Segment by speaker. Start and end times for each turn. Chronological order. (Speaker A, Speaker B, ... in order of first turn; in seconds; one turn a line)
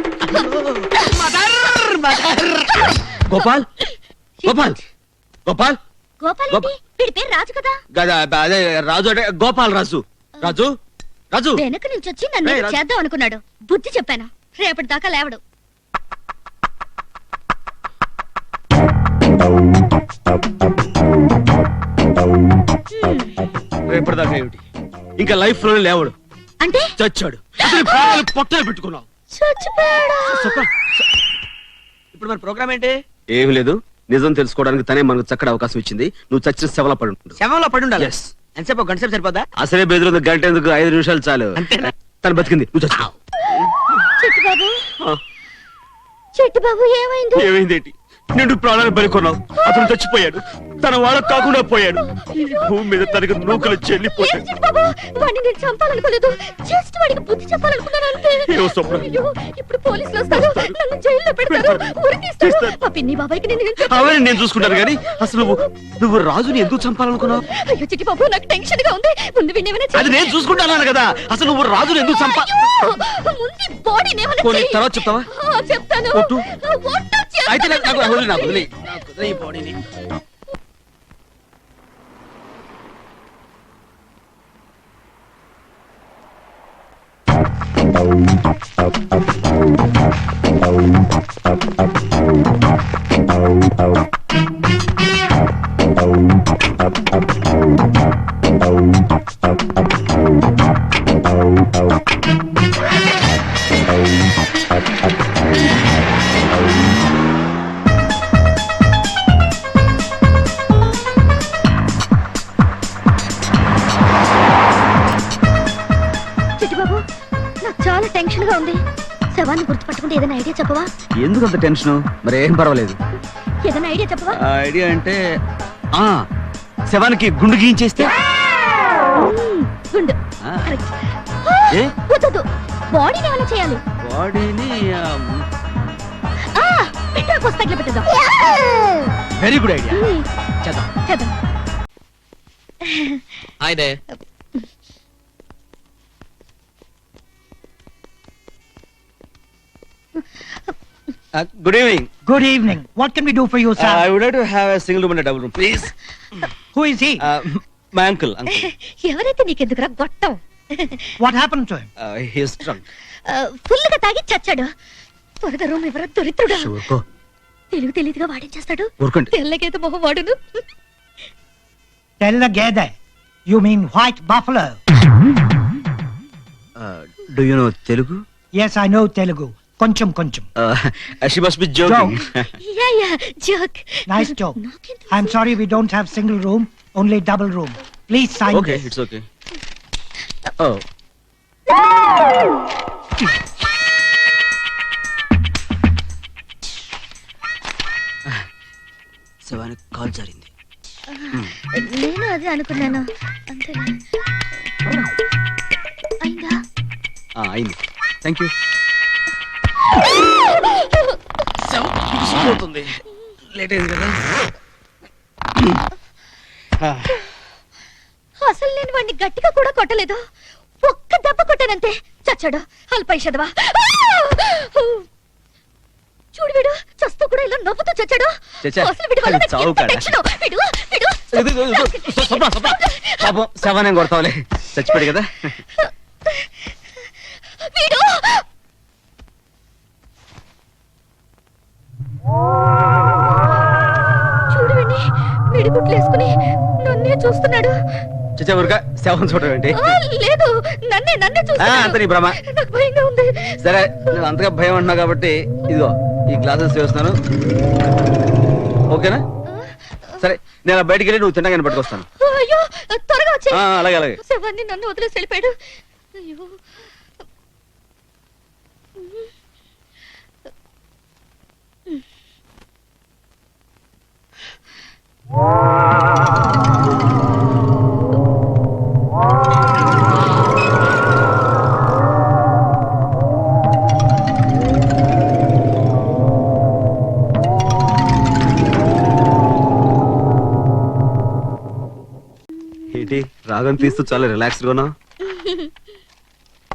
Speaker A: 0.3-0.8
Speaker B: 1.1-2.6
Speaker C: 2.8-3.4
Speaker A: 3.1-3.7
Speaker C: 4.4-4.8
Speaker A: 4.5-4.8
Speaker A: 5.5-5.8
Speaker C: 6.2-7.8
Speaker A: 7.9-10.7
Speaker A: 11.3-11.6
Speaker C: 11.6-15.4
Speaker A: 12.4-12.8
Speaker C: 22.9-23.3
Speaker A: 23.9-24.6
Speaker A: 25.2-26.1
Speaker C: 26.6-26.9
Speaker A: 27.0-29.1
Speaker C: 29.4-30.6
Speaker B: 32.1-33.0
Speaker A: 33.3-37.4
Speaker B: 37.4-39.5
Speaker A: 38.0-38.3
Speaker A: 39.6-43.1
Speaker B: 41.6-41.9
Speaker C: 44.2-44.7
Speaker C: 46.4-47.5
Speaker A: 47.4-54.5
Speaker C: 52.1-65.7
Speaker A: 58.5-59.1
Speaker A: 60.3-60.8
Speaker A: 61.5-62.8
Speaker A: 63.9-67.5
Speaker C: 67.5-70.5
Speaker A: 69.9-72.5
Speaker C: 72.2-78.7
Speaker A: 74.4-75.3
Speaker A: 76.1-76.5
Speaker A: 77.5-79.9
Speaker C: 116.6-117.0
Speaker C: 117.6-118.8
Speaker C: 119.3-120.9
Speaker A: 121.2-123.0
Speaker C: 123.6-124.4
Speaker A: 124.3-125.2
Speaker A: 126.9-128.2
Speaker C: 129.2-130.9
Speaker A: 130.4-130.7
Speaker C: 131.4-133.8
Speaker A: 134.0-135.4
Speaker C: 136.6-139.0
Speaker A: 139.4-140.0
Speaker C: 139.9-140.2
Speaker C: 141.1-141.3
Speaker C: 142.8-143.2
Speaker C: 150.3-150.7
Speaker A: 151.3-152.1
Speaker D: 152.3-154.1
Speaker A: 153.8-155.9
Speaker D: 156.7-157.2
Speaker A: 157.2-158.7
Speaker C: 158.6-161.2
Speaker D: 161.2-161.9
Speaker A: 162.0-162.8
Speaker C: 163.3-164.7
Speaker C: 165.4-166.7
Speaker A: 166.5-167.0
Speaker C: 167.7-170.6
Speaker A: 169.0-169.3
Speaker D: 172.2-172.9
Speaker D: 173.5-174.8
Speaker A: 176.8-178.2
Speaker D: 178.6-180.5
Speaker A: 180.6-182.4
Speaker D: 181.8-182.2
Speaker C: 182.6-185.4
Speaker D: 184.1-184.6
Speaker D: 185.1-188.9
Speaker A: 188.5-189.2
Speaker A: 199.4-200.5
Speaker C: 201.1-204.0
Speaker C: 206.2-206.6
Speaker A: 207.4-208.5
Speaker C: 210.5-211.1
Speaker A: 211.6-212.9
Speaker A: 213.5-214.2
Speaker A: 216.8-217.2
Speaker C: 218.4-220.2
Speaker C: 220.8-225.1
Speaker C: 226.3-233.3
Speaker A: 228.6-230.2
Speaker A: 231.3-235.5
Speaker C: 234.9-235.1
Speaker C: 235.8-236.5
Speaker C: 237.6-238.4
Speaker C: 244.5-247.8
Speaker A: 248.4-250.0
Speaker C: 249.7-253.7
Speaker A: 251.6-252.4
Speaker A: 253.6-257.1
Speaker A: 258.9-259.2
Speaker C: 259.5-260.3
Speaker A: 260.2-262.1
Speaker C: 261.7-265.6
Speaker A: 263.5-264.2
Speaker C: 266.1-266.6
Speaker C: 269.0-269.3
Speaker A: 292.9-294.9
Speaker C: 295.3-295.7